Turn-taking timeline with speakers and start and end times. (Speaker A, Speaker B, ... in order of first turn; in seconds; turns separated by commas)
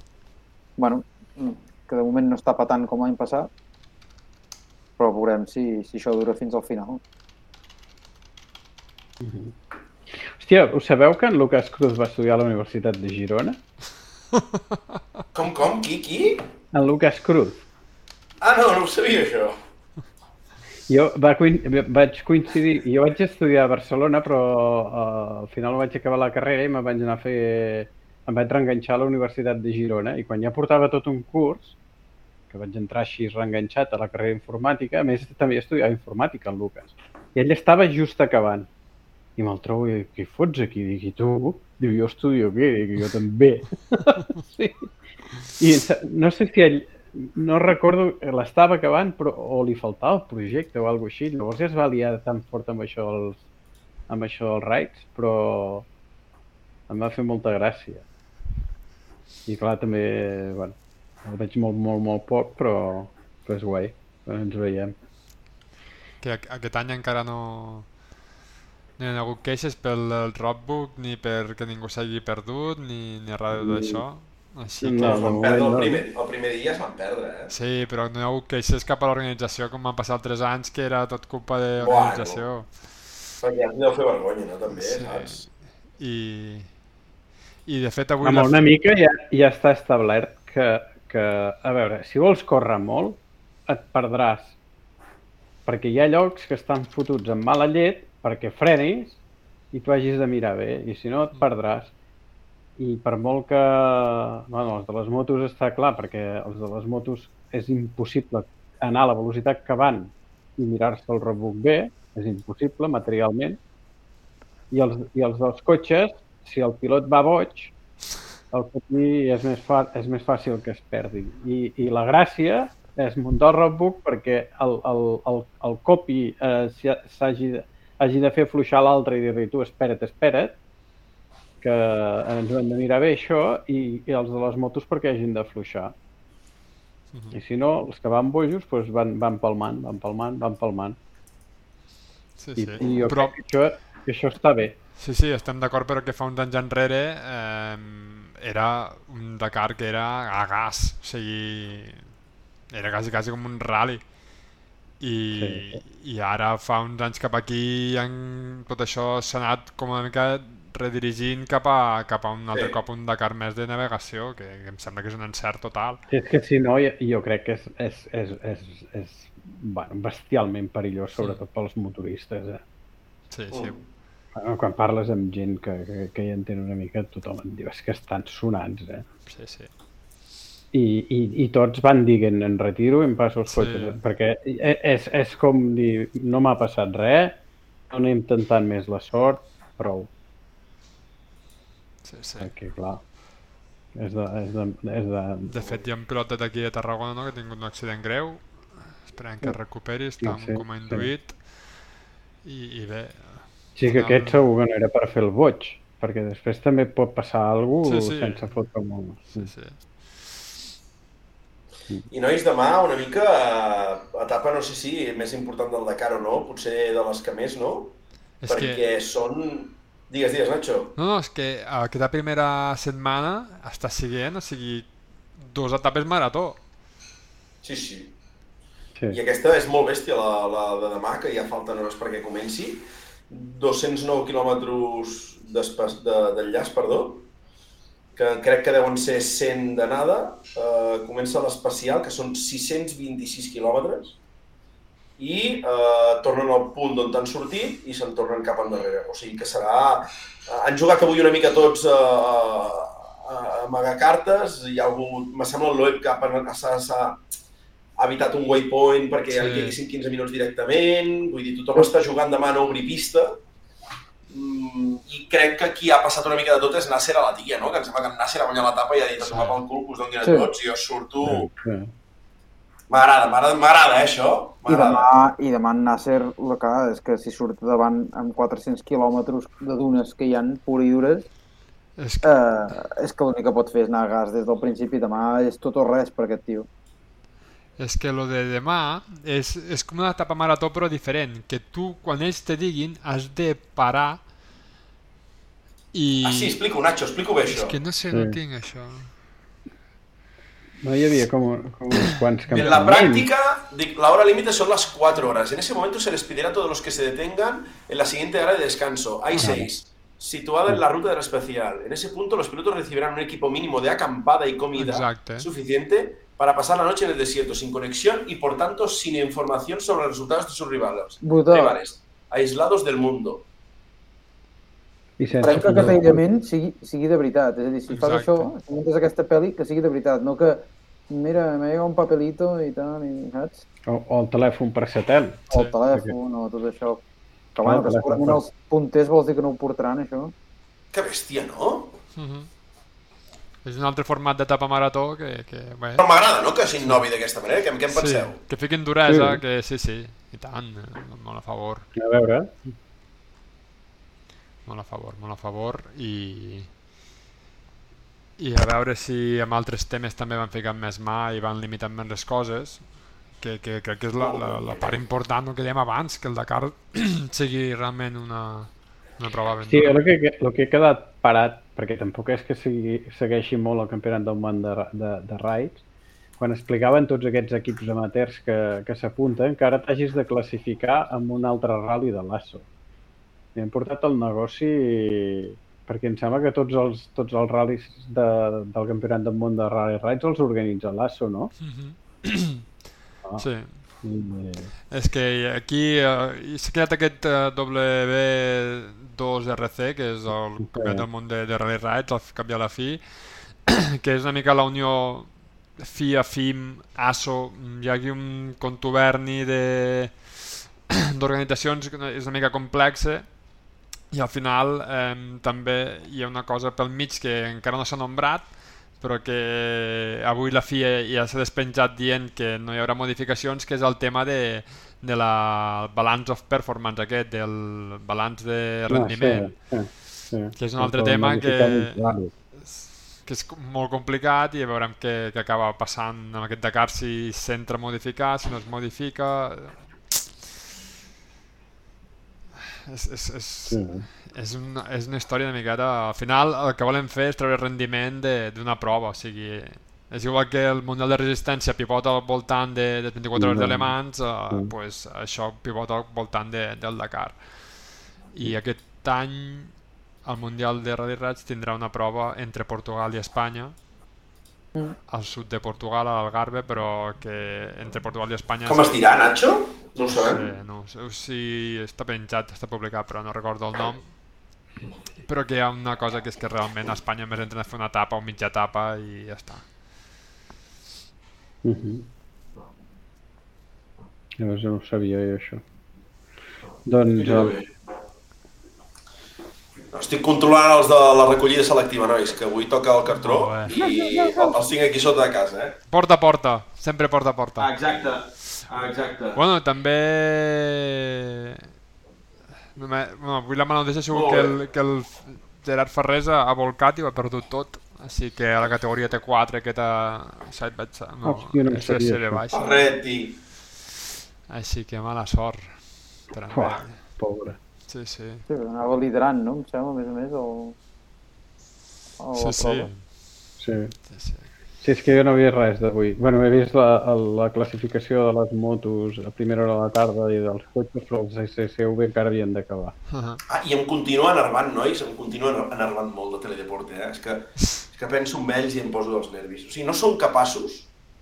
Speaker A: 0.8-3.5, Speaker A: 5.0-7.0, Speaker B: 9.2-9.6, Speaker B: 10.1-13.6, Speaker C: 14.3-14.6, Speaker D: 15.3-16.4, Speaker B: 16.7-17.6, Speaker D: 18.4-19.6, Speaker B: 20.9-31.8, Speaker B: 32.5-38.7, Speaker B: 39.4-44.9, Speaker B: 45.6-53.4, Speaker B: 54.1-55.9, Speaker B: 56.9-58.0, Speaker B: 59.5-65.0, Speaker C: 66.2-67.9, Speaker C: 69.0-75.5, Speaker B: 73.5-74.0, Speaker B: 74.8-76.0, Speaker D: 75.0-77.5, Speaker C: 77.5-82.8, Speaker D: 81.8-82.5, Speaker D: 83.4-85.5, Speaker C: 84.7-86.7, Speaker C: 87.7-88.5, Speaker B: 88.2-94.5, Speaker B: 95.7-99.2, Speaker B: 99.7-101.9, Speaker B: 102.8-113.6, Speaker B: 114.7-117.7, Speaker B: 118.5-130.6, Speaker B: 131.6-135.9, Speaker B: 137.3-141.0, Speaker C: 142.4-143.3, Speaker B: 142.6-144.8, Speaker C: 145.0-152.0, Speaker C: 152.7-154.0, Speaker C: 155.0-166.0, Speaker B: 155.3-155.8, Speaker B: 166.1-172.6, Speaker C: 173.3-173.8, Speaker D: 173.5-173.8, Speaker B: 174.3-179.1, Speaker C: 179.3-179.7, Speaker B: 180.7-187.4, Speaker C: 183.5-184.0, Speaker B: 187.9-190.1, Speaker C: 192.0-192.5, Speaker B: 192.4-193.0, Speaker B: 193.9-195.5, Speaker C: 195.5-201.4, Speaker B: 200.2-201.1, Speaker C: 202.4-204.4, Speaker B: 203.8-209.5, Speaker C: 207.8-208.6, Speaker C: 209.3-210.3, Speaker D: 212.1-218.0, Speaker C: 218.4-218.8, Speaker D: 218.5-220.9, Speaker C: 221.0-226.6, Speaker D: 227.6-228.1, Speaker D: 229.1-237.3, Speaker D: 238.2-244.2, Speaker D: 245.2-257.3, Speaker D: 258.0-263.4, Speaker C: 259.3-259.8, Speaker D: 264.3-271.5, Speaker C: 269.2-269.6, Speaker A: 270.2-270.5, Speaker B: 271.2-271.9, Speaker D: 272.9-275.1, Speaker A: 274.7-281.3, Speaker C: 282.0-282.3, Speaker A: 282.2-286.7, Speaker C: 287.8-294.2, Speaker C: 295.9-296.6, Speaker D: 296.2-297.8, Speaker C: 297.5-299.1, Speaker B: 298.1-298.4, Speaker B: 300.8-303.3, Speaker C: 301.9-302.7, Speaker D: 302.5-323.4, Speaker C: 309.4-309.6, Speaker B: 309.4-309.7, Speaker C: 314.8-315.5, Speaker A: 321.2-321.8, Speaker B: 325.2-326.2, Speaker A: 325.4-333.6, Speaker C: 327.9-328.5, Speaker B: 333.9-336.1, Speaker A: 335.5-337.0, Speaker A: 337.6-340.3, Speaker B: 337.6-338.4, Speaker D: 340.9-342.0, Speaker C: 342.2-342.5, Speaker C: 343.6-346.1, Speaker D: 346.0-348.4, Speaker C: 347.9-351.9, Speaker B: 349.1-349.4, Speaker B: 352.0-352.8, Speaker C: 354.7-356.7, Speaker C: 358.4-362.9, Speaker C: 363.4-370.0, Speaker D: 364.2-365.0, Speaker B: 369.6-375.8, Speaker B: 376.4-382.7, Speaker B: 383.6-391.5, Speaker C: 391.6-392.6, Speaker C: 393.4-393.9, Speaker B: 394.0-394.7, Speaker C: 394.9-413.3, Speaker B: 400.7-401.1, Speaker C: 414.1-429.5, Speaker B: 428.9-432.3, Speaker C: 430.6-432.0, Speaker C: 432.5-440.5, Speaker C: 442.7-457.8, Speaker B: 443.7-444.1, Speaker B: 453.4-454.0, Speaker C: 458.3-459.7, Speaker C: 460.2-463.8, Speaker C: 465.1-469.0, Speaker D: 468.7-470.4, Speaker C: 470.1-474.1, Speaker C: 475.2-479.7, Speaker B: 481.6-482.1, Speaker B: 484.4-485.6, Speaker B: 486.9-487.6, Speaker D: 487.2-487.7, Speaker D: 489.9-495.8, Speaker C: 493.1-493.7, Speaker A: 493.7-494.7, Speaker C: 495.9-497.7, Speaker D: 497.6-499.4, Speaker C: 499.3-501.7, Speaker C: 502.8-512.9, Speaker D: 504.1-504.6, Speaker B: 511.2-512.4, Speaker D: 512.5-513.4, Speaker C: 514.5-517.0, Speaker B: 516.5-517.6, Speaker C: 517.9-518.5, Speaker A: 518.5-520.8, Speaker A: 522.2-522.9, Speaker C: 522.4-523.0, Speaker B: 523.6-524.0, Speaker C: 524.1-524.5, Speaker B: 524.8-533.0, Speaker C: 533.1-533.4, Speaker D: 533.5-540.9